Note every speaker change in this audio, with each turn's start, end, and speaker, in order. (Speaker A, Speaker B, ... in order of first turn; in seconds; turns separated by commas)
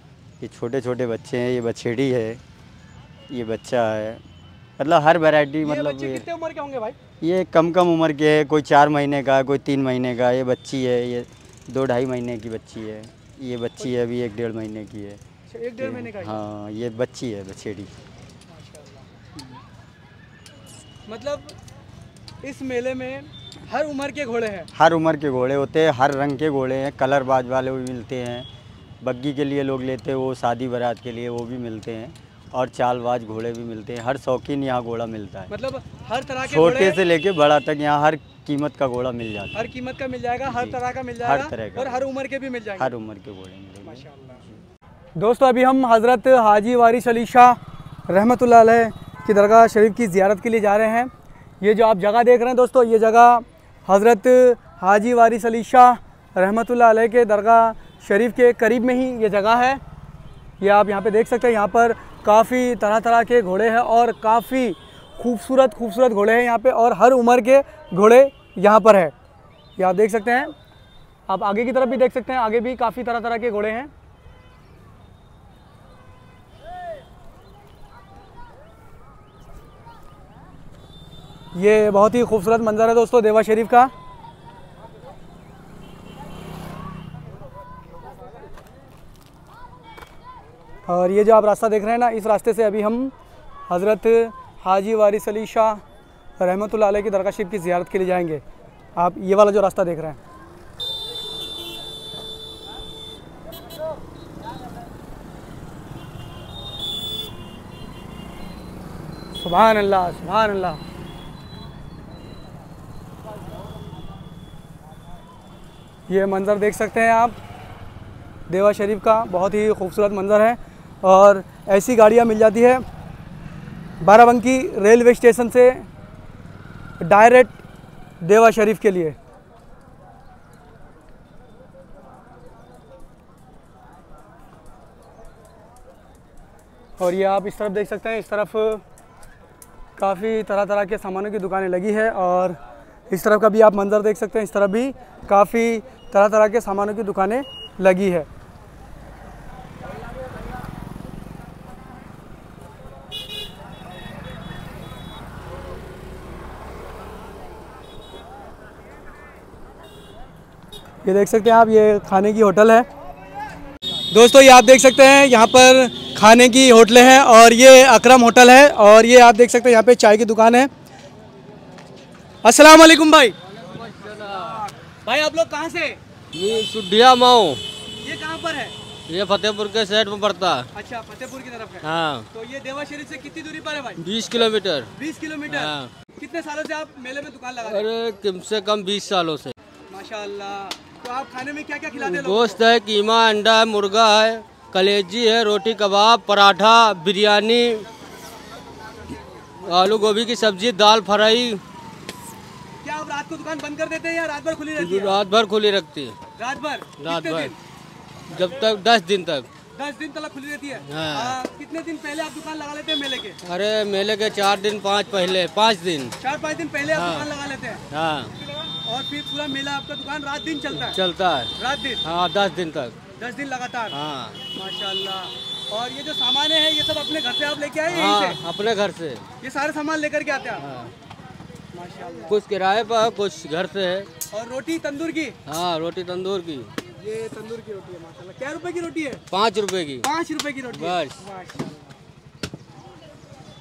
Speaker A: 0.4-2.4, Speaker A: 3.3-4.2, Speaker A: 4.8-6.2, Speaker B: 5.6-7.0, Speaker A: 7.2-15.2, Speaker B: 15.5-16.4, Speaker A: 15.8-17.9, Speaker B: 18.5-19.1, Speaker B: 21.1-21.6, Speaker B: 22.4-24.7, Speaker A: 24.7-28.5, Speaker A: 29.0-35.5, Speaker B: 35.5-37.0, Speaker A: 36.4-39.7, Speaker B: 39.5-42.9, Speaker A: 40.5-42.1, Speaker A: 42.8-44.6, Speaker B: 43.8-44.4, Speaker B: 45.2-59.8, Speaker B: 60.6-69.1, Speaker B: 69.8-70.5, Speaker B: 71.3-73.9, Speaker B: 81.5-83.9, Speaker B: 90.9-93.1, Speaker B: 93.7-95.8, Speaker B: 96.4-98.4, Speaker B: 99.0-100.2, Speaker B: 109.4-110.8, Speaker B: 116.1-117.3, Speaker B: 118.5-122.8, Speaker B: 124.0-125.9, Speaker B: 127.0-127.6, Speaker B: 128.2-129.2, Speaker B: 137.0-138.8, Speaker B: 140.0-142.6, Speaker B: 143.1-148.3, Speaker B: 161.1-162.9, Speaker B: 164.1-170.7, Speaker B: 172.4-173.3, Speaker C: 173.7-174.7, Speaker B: 175.1-176.0, Speaker C: 176.3-177.6, Speaker B: 178.0-178.7, Speaker C: 179.1-180.7, Speaker B: 180.7-184.0, Speaker C: 181.8-182.3, Speaker C: 184.0-184.9, Speaker B: 185.0-187.8, Speaker C: 185.5-185.9, Speaker C: 187.7-189.5, Speaker B: 189.9-192.6, Speaker C: 191.9-197.8, Speaker C: 199.6-201.6, Speaker B: 202.8-205.2, Speaker C: 204.8-206.2, Speaker B: 206.4-207.6, Speaker C: 207.0-207.5, Speaker C: 208.3-209.5, Speaker B: 209.8-213.4, Speaker C: 210.9-211.4, Speaker C: 213.4-216.1, Speaker B: 216.2-217.8, Speaker C: 216.9-217.3, Speaker C: 217.9-218.3, Speaker B: 218.8-221.0, Speaker C: 220.8-221.5, Speaker B: 221.6-222.0, Speaker C: 222.0-222.9, Speaker B: 223.2-223.9, Speaker C: 223.9-224.4, Speaker B: 224.5-228.4, Speaker C: 227.9-229.2, Speaker B: 229.4-230.6, Speaker C: 230.6-230.9, Speaker B: 231.7-232.4, Speaker C: 232.3-234.1, Speaker B: 234.3-235.3, Speaker C: 235.5-236.7, Speaker B: 237.0-239.2, Speaker C: 239.3-240.1, Speaker B: 240.0-241.9, Speaker C: 240.7-241.2